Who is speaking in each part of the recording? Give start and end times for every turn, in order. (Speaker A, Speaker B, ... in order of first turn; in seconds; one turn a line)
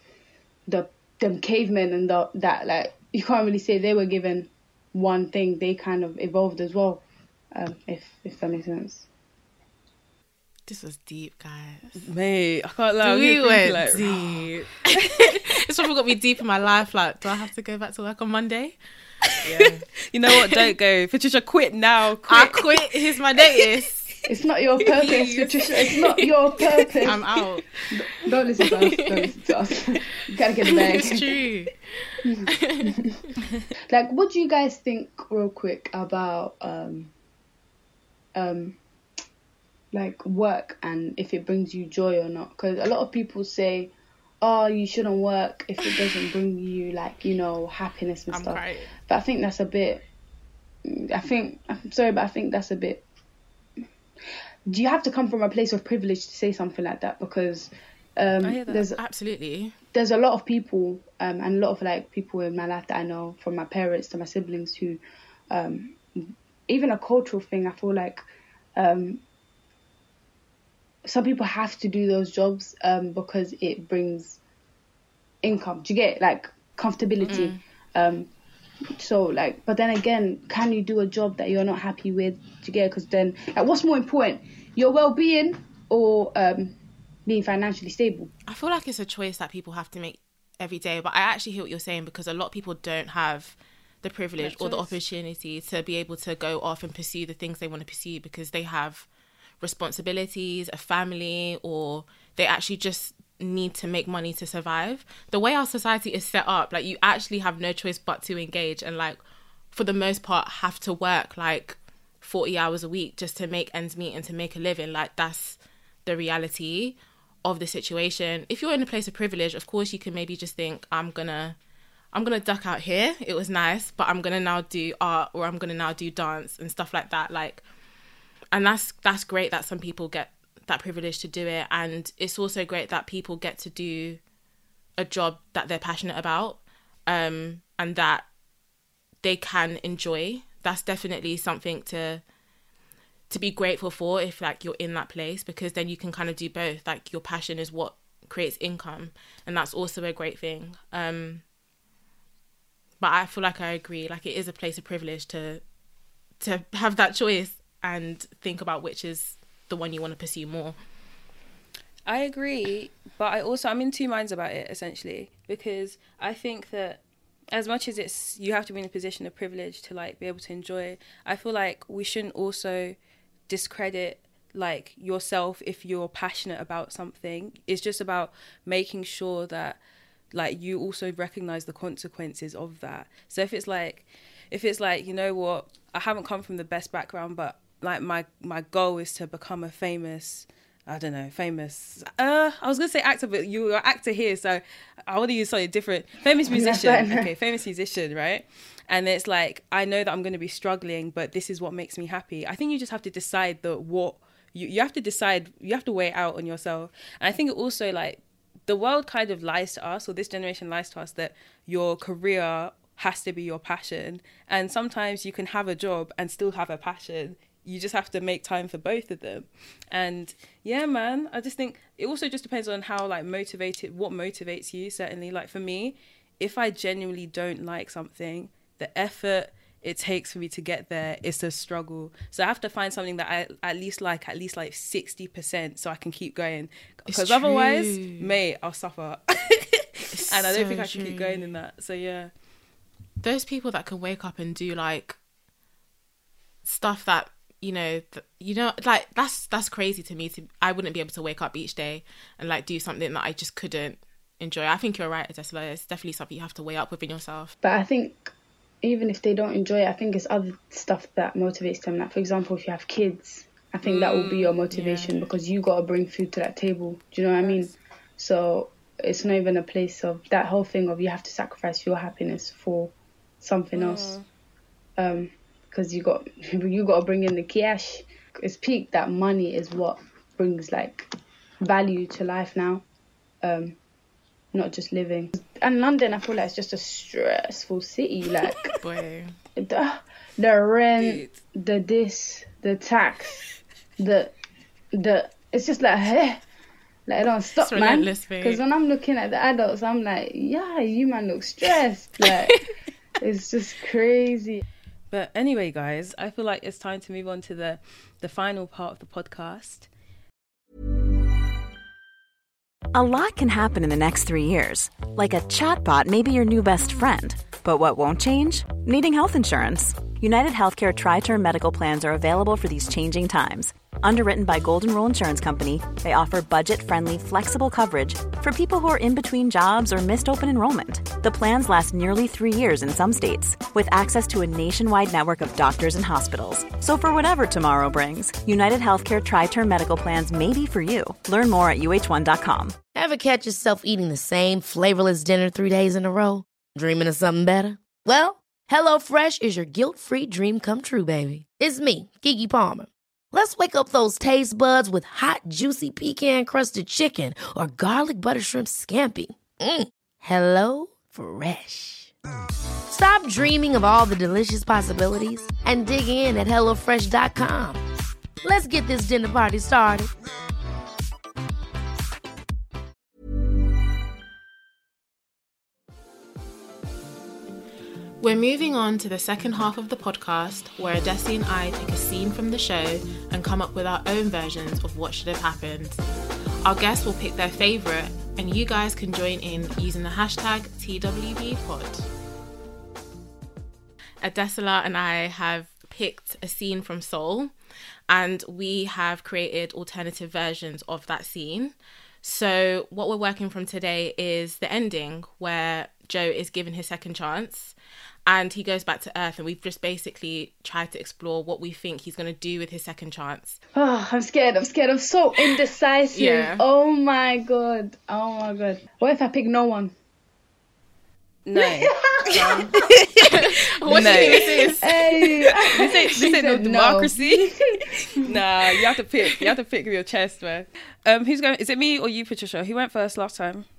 Speaker A: 0.7-9.1
Speaker B: 10.7-12.0
Speaker C: 12.0-15.4
Speaker B: 13.0-18.8
Speaker C: 19.3-22.7
Speaker B: 19.4-19.9
Speaker B: 22.3-24.1
Speaker A: 24.3-27.2
Speaker B: 24.9-26.3
Speaker B: 27.0-27.8
Speaker A: 27.9-31.4
Speaker B: 28.9-29.2
Speaker B: 30.7-31.7
Speaker A: 32.2-33.2
Speaker B: 32.5-33.0
Speaker A: 33.9-37.1
Speaker A: 38.4-38.8
Speaker A: 39.9-50.0
Speaker B: 48.3-48.9
Speaker A: 50.9-53.0
Speaker A: 54.7-59.0
Speaker C: 58.4-58.9
Speaker B: 59.0-59.8
Speaker A: 59.9-68.2
Speaker A: 68.8-69.2
Speaker A: 71.0-74.4
Speaker A: 75.4-78.3
Speaker B: 77.3-77.6
Speaker A: 79.0-88.3
Speaker B: 88.5-99.1
Speaker A: 94.4-95.0
Speaker B: 99.6-109.2
Speaker B: 109.7-121.6
Speaker B: 122.1-127.7
Speaker B: 128.5-134.2
Speaker B: 135.0-138.2
Speaker B: 139.2-142.2
Speaker B: 143.3-151.4
Speaker B: 153.0-155.6
Speaker B: 156.4-160.8
Speaker C: 162.1-167.0
Speaker C: 167.5-173.0
Speaker C: 173.5-179.8
Speaker C: 180.3-242.3
Speaker A: 196.5-197.3
Speaker B: 237.1-238.3
Speaker B: 240.1-241.5
Speaker B: 243.2-245.2
Speaker B: 246.7-257.5
Speaker A: 257.6-274.2
Speaker B: 263.8-265.2
Speaker C: 267.4-267.7
Speaker C: 273.8-274.3
Speaker A: 275.0-281.1
Speaker A: 281.6-282.9
Speaker A: 283.4-283.8
Speaker A: 284.5-288.7
Speaker B: 288.8-289.4
Speaker A: 289.6-293.5
Speaker C: 291.0-291.4
Speaker A: 294.0-294.3
Speaker A: 294.9-296.4
Speaker A: 297.1-302.7
Speaker B: 297.6-298.6
Speaker A: 303.2-304.6
Speaker C: 305.1-309.9
Speaker D: 312.9-342.8
Speaker E: 342.9-362.1
Speaker E: 362.9-367.8
Speaker E: 368.4-370.1
Speaker B: 378.2-386.1
Speaker B: 386.6-392.1
Speaker B: 394.2-397.5
Speaker B: 398.1-407.8
Speaker B: 408.3-413.6
Speaker A: 413.8-419.9
Speaker B: 416.1-416.6
Speaker C: 421.4-422.0
Speaker A: 421.6-422.7
Speaker B: 422.3-425.1
Speaker C: 422.7-424.8
Speaker A: 424.0-428.4
Speaker C: 425.5-433.7